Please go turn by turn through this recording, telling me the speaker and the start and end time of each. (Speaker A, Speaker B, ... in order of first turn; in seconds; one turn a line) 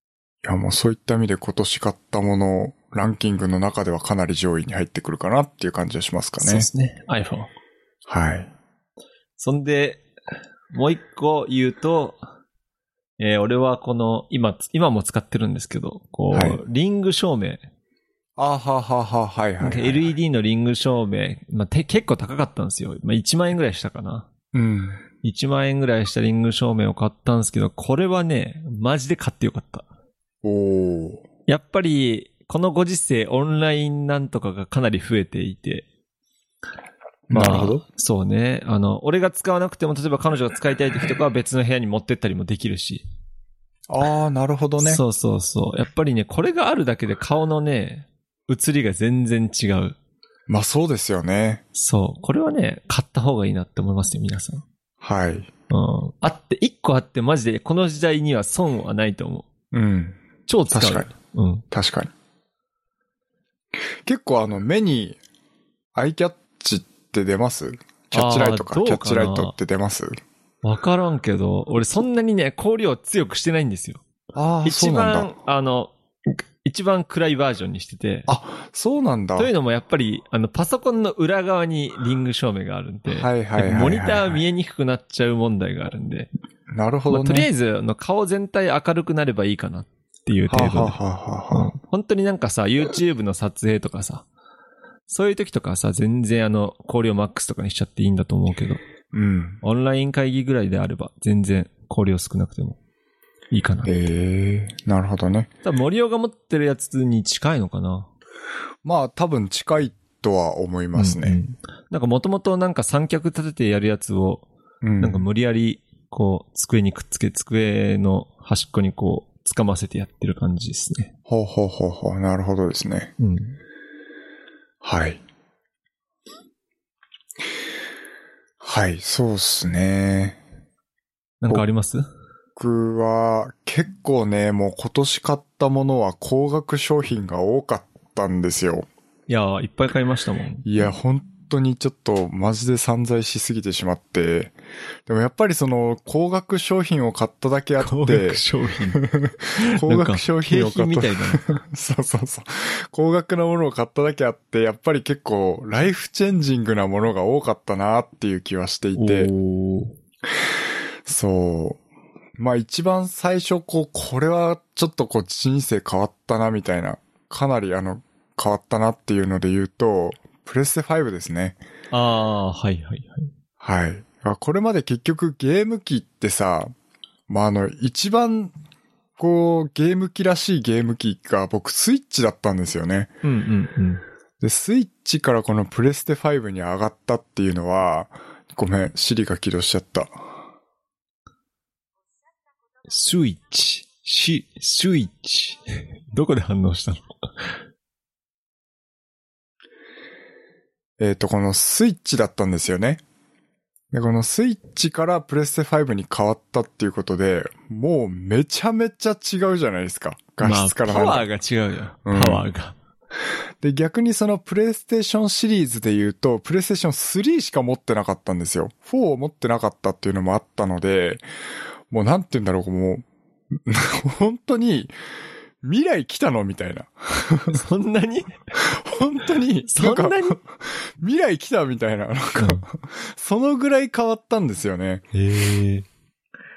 Speaker A: 0.4-6.7
Speaker B: 6.4-7.5
Speaker A: 8.1-8.5
Speaker B: 9.4-10.1
Speaker B: 10.7-12.2
Speaker B: 13.2-17.6
Speaker A: 16.3-16.6
Speaker A: 18.4-20.1
Speaker B: 19.6-24.3
Speaker A: 24.5-25.0
Speaker B: 25.2-29.9
Speaker A: 30.4-31.2
Speaker B: 31.5-35.9
Speaker A: 37.3-37.8
Speaker B: 37.3-43.0
Speaker A: 43.9-45.0
Speaker B: 44.8-50.0
Speaker A: 50.5-51.6
Speaker B: 51.8-54.6
Speaker A: 55.0-55.5
Speaker B: 55.7-59.5
Speaker A: 59.7-61.1
Speaker B: 60.5-61.6
Speaker A: 61.7-62.1
Speaker A: 64.0-65.2
Speaker A: 66.0-70.2
Speaker B: 68.1-69.5
Speaker B: 70.6-74.0
Speaker A: 74.3-75.3
Speaker B: 74.6-78.3
Speaker A: 78.3-79.5
Speaker B: 79.4-86.3
Speaker A: 83.1-84.4
Speaker A: 86.7-87.5
Speaker B: 87.1-91.0
Speaker A: 90.5-91.7
Speaker B: 91.5-94.2
Speaker B: 95.1-98.8
Speaker A: 99.1-99.6
Speaker B: 99.6-102.8
Speaker B: 103.5-104.0
Speaker A: 103.8-105.5
Speaker B: 105.6-108.1
Speaker A: 108.8-111.4
Speaker B: 111.0-114.5
Speaker A: 114.8-115.2
Speaker B: 115.0-121.1
Speaker A: 121.3-123.1
Speaker B: 123.2-123.6
Speaker A: 124.8-125.2
Speaker A: 128.6-130.4
Speaker B: 131.4-132.1
Speaker A: 132.6-138.9
Speaker B: 139.3-140.7
Speaker A: 140.6-144.6
Speaker A: 145.1-148.4
Speaker B: 147.8-149.0
Speaker A: 148.9-159.3
Speaker B: 149.6-151.6
Speaker B: 158.9-160.0
Speaker A: 161.1-161.8
Speaker A: 162.4-171.6
Speaker B: 171.9-173.3
Speaker A: 173.6-176.7
Speaker A: 177.3-178.5
Speaker A: 179.2-183.1
Speaker B: 183.2-184.0
Speaker A: 184.4-190.1
Speaker B: 192.9-197.2
Speaker A: 201.0-203.0
Speaker A: 203.9-211.3
Speaker B: 210.4-212.8
Speaker A: 212.1-212.4
Speaker A: 213.6-221.2
Speaker A: 221.9-224.9
Speaker A: 225.6-227.6
Speaker B: 227.5-228.4
Speaker A: 228.6-235.1
Speaker B: 229.7-230.4
Speaker B: 232.4-232.7
Speaker B: 235.1-235.9